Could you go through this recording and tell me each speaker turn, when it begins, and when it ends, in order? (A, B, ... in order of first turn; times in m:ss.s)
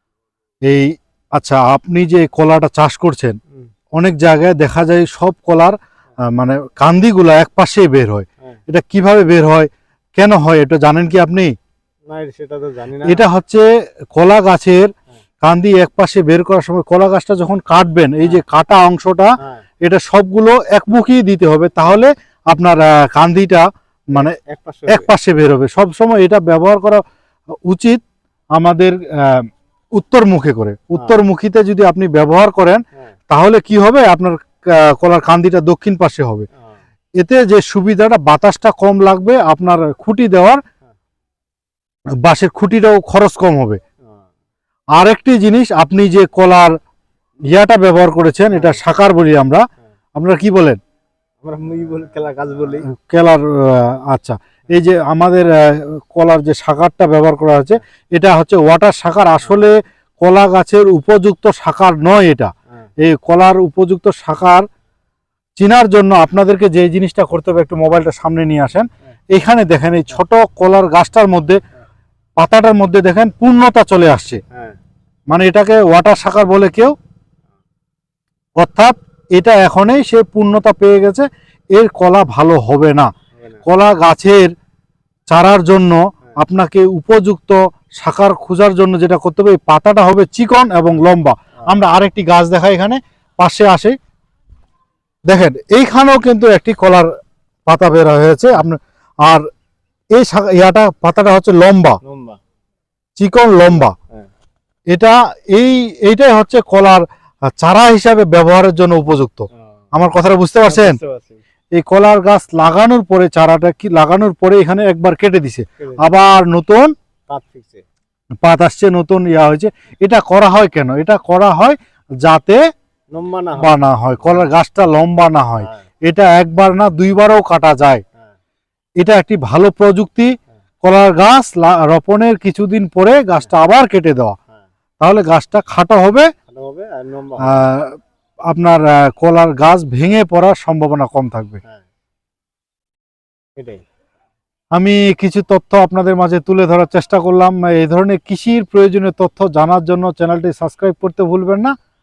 0:00.7-0:03.4 A
0:04.0-0:05.8 A
0:06.3-0:11.5 A
0:12.1-0:13.2 B
0:13.0-0:13.6 A
0:14.1-0:24.4 A
0:24.1-0:25.1 B
0:24.9-0:27.0 A
0:27.7-0:28.0 A
0:28.6-0:36.5 A
0:37.2-0:40.6 A
0:42.2-0:43.8 A
0:45.0-0:46.7 A
0:47.5-0:49.6 A
0:48.5-0:48.8 B
0:50.2-0:50.8 A
0:51.4-0:52.9 B
0:53.0-1:04.6 A
1:05.6-1:11.6 A
1:12.4-1:14.4 A
1:14.5-1:14.8 B
1:15.3-1:16.9 A
1:18.6-1:23.1 A
1:23.4-1:23.6 B
1:23.6-1:24.5 A
1:25.3-1:34.0 A
1:35.3-1:37.1 A
1:37.7-1:39.4 A
1:40.1-1:42.0 A
1:42.0-1:42.4 B
1:43.2-1:43.9 A
1:43.7-1:44.3 B
1:44.9-1:51.0 A
1:50.6-1:51.4 B
1:51.7-1:56.9 A
1:55.8-1:56.1 B
1:57.3-1:57.8 B
1:58.4-2:02.6 A
2:03.1-2:03.8 B
2:03.6-2:08.0 A
2:09.0-2:10.3 A
2:10.8-2:14.4 A
2:15.0-2:16.3 A
2:16.5-2:17.5 B
2:17.4-2:17.9 A
2:18.5-2:21.6 A
2:23.6-2:23.8 B
2:24.7-2:31.7 A